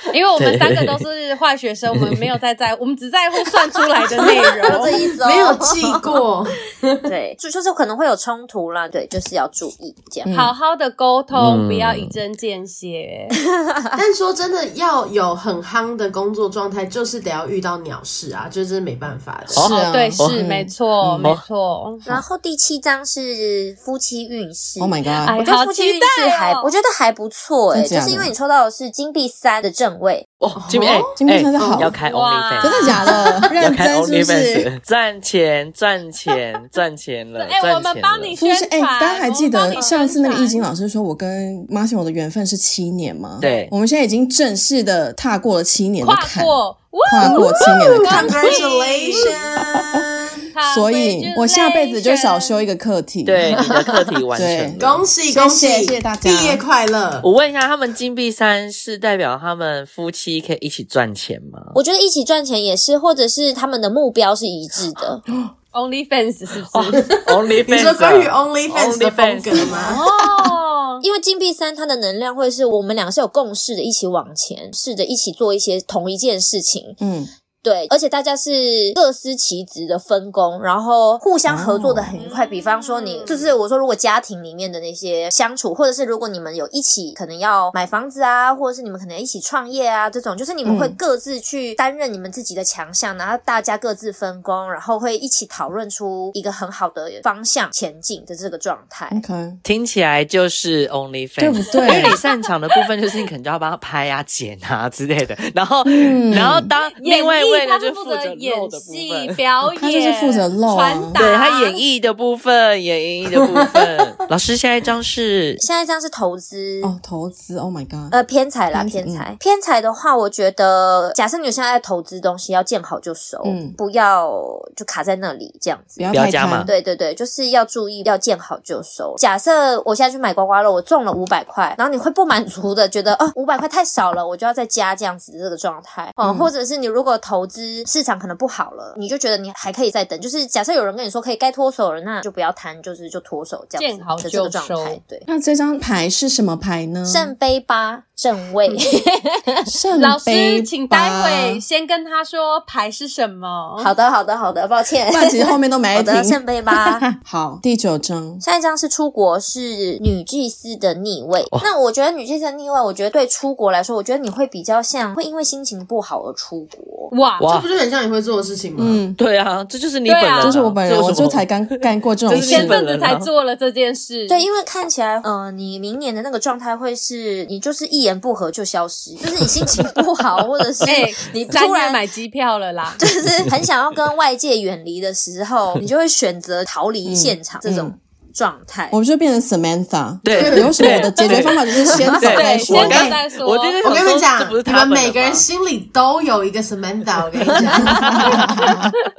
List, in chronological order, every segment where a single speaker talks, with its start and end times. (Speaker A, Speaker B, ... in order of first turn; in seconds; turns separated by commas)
Speaker A: 0.1-5.0, Speaker B: 0.4-1.0, Speaker B: 1.9-2.2, Speaker C: 4.2-6.1, Speaker D: 4.6-7.0, Speaker C: 7.1-10.3, Speaker E: 10.3-10.5, Speaker A: 10.3-13.4, Speaker B: 11.3-12.1, Speaker C: 13.6-14.0, Speaker D: 13.9-19.8, Speaker B: 19.5-20.4, Speaker E: 19.6-21.3, Speaker A: 19.8-22.2, Speaker C: 22.1-30.3, Speaker E: 24.8-25.4, Speaker A: 25.2-26.7, Speaker E: 27.7-28.3, Speaker B: 30.4-38.4, Speaker D: 30.6-32.0, Speaker E: 31.1-31.9, Speaker A: 32.0-33.4, Speaker E: 32.6-34.7, Speaker D: 33.1-33.5, Speaker A: 37.4-40.7, Speaker E: 38.4-48.6, Speaker A: 43.4-43.7, Speaker B: 43.4-43.7, Speaker A: 46.0-49.5, Speaker D: 48.0-50.4, Speaker E: 49.2-50.0, Speaker A: 50.5-52.7, Speaker E: 50.6-53.5, Speaker B: 53.3-54.8, Speaker E: 54.4-56.6, Speaker D: 54.8-57.3, Speaker B: 57.2-61.8, Speaker C: 61.8-65.2, Speaker E: 65.3-65.5, Speaker A: 65.7-67.1, Speaker B: 66.7-69.7, Speaker D: 67.0-70.0, Speaker E: 69.7-70.0, Speaker A: 69.8-71.0, Speaker C: 71.0-77.0, Speaker E: 77.0-77.3, Speaker C: 77.6-99.2, Speaker E: 81.5-82.1, Speaker A: 82.2-83.5, Speaker E: 90.7-91.0, Speaker E: 99.1-99.6, Speaker B: 99.6-109.4, Speaker E: 101.4-102.2, Speaker A: 101.7-102.3, Speaker E: 105.9-106.7, Speaker A: 107.0-111.8, Speaker E: 109.8-111.2, Speaker B: 111.2-115.6, Speaker C: 115.6-117.0, Speaker E: 116.8-118.2, Speaker C: 118.1-126.1, Speaker E: 118.7-119.3, Speaker E: 123.4-123.8, Speaker E: 126.0-126.7, Speaker B: 126.1-126.7, Speaker C: 126.6-145.3, Speaker E: 136.2-136.5, Speaker A: 143.8-145.0, Speaker E: 145.3-147.3, Speaker C: 147.1-149.7, Speaker E: 149.7-151.6, Speaker A: 150.0-153.9, Speaker C: 153.8-157.1, Speaker E: 155.1-158.4, Speaker C: 158.4-167.1, Speaker A: 167.1-167.5, Speaker B: 167.4-167.7, Speaker D: 167.4-169.0, Speaker E: 168.8-169.2, Speaker B: 169.2-171.7, Speaker A: 170.1-170.6, Speaker E: 170.4-172.8, Speaker B: 172.3-173.3, Speaker A: 172.3-174.5, Speaker C: 174.3-182.0, Speaker A: 180.8-183.0, Speaker C: 183.0-189.0, Speaker E: 187.1-187.9, Speaker E: 188.9-193.1, Speaker B: 190.2-195.4, Speaker D: 190.3-191.0, Speaker A: 190.9-191.3, Speaker A: 192.2-194.1, Speaker D: 192.8-193.2, Speaker D: 193.8-198.8, Speaker B: 197.7-198.9, Speaker E: 197.8-198.7